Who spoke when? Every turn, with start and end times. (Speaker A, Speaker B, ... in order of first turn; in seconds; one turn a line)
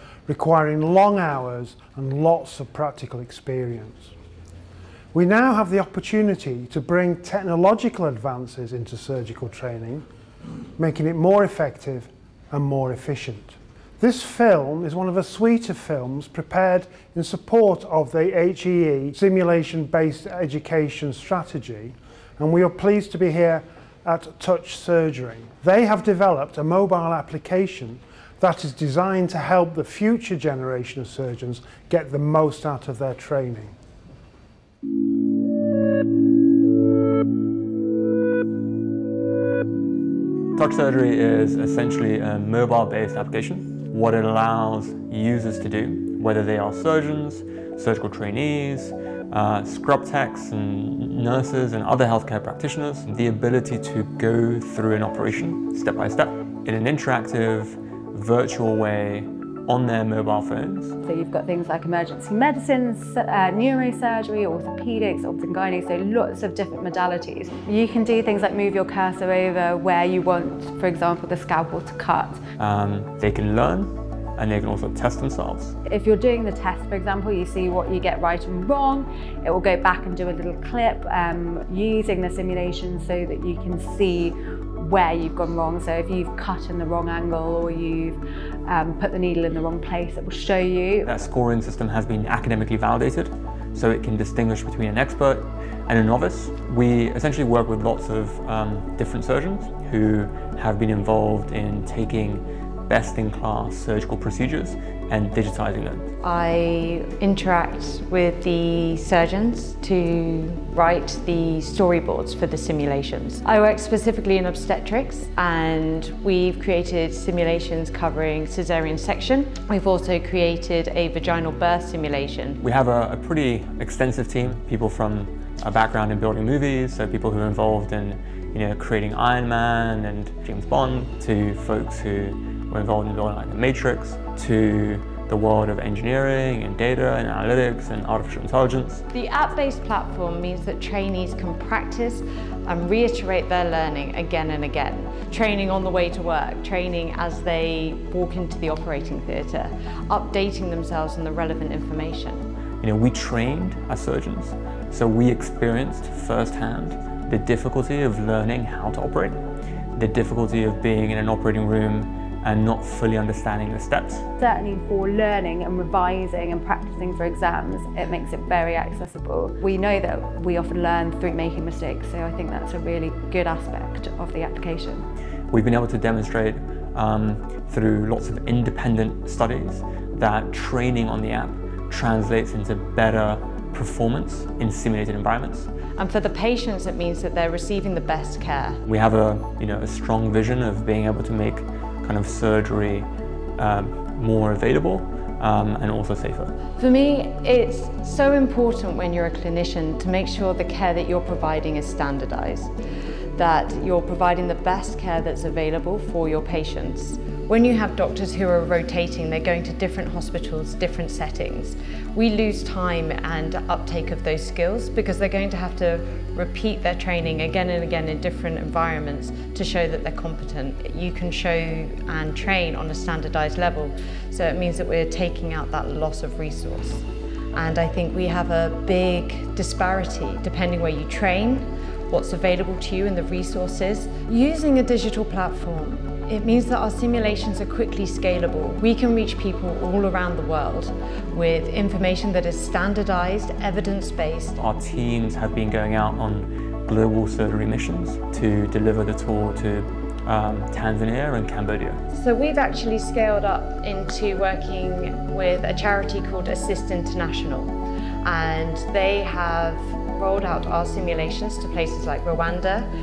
Speaker A: 0.3-4.1
Speaker A: 5.1-10.1
Speaker A: 10.8-33.7
Speaker B: 40.6-61.0
Speaker C: 61.0-72.4
Speaker B: 72.6-75.8
Speaker C: 75.9-91.1
Speaker B: 91.0-106.1
Speaker D: 106.2-122.6
Speaker B: 122.6-139.0
Speaker D: 139.1-152.5
Speaker B: 152.8-159.4
Speaker B: 160.0-164.3
Speaker C: 164.4-175.1
Speaker B: 175.5-185.7
Speaker D: 186.0-188.8
Speaker B: 188.9-196.6
Speaker D: 196.8-202.7
Speaker D: 203.4-244.6
Speaker B: 244.6-252.0
Speaker D: 252.1-262.9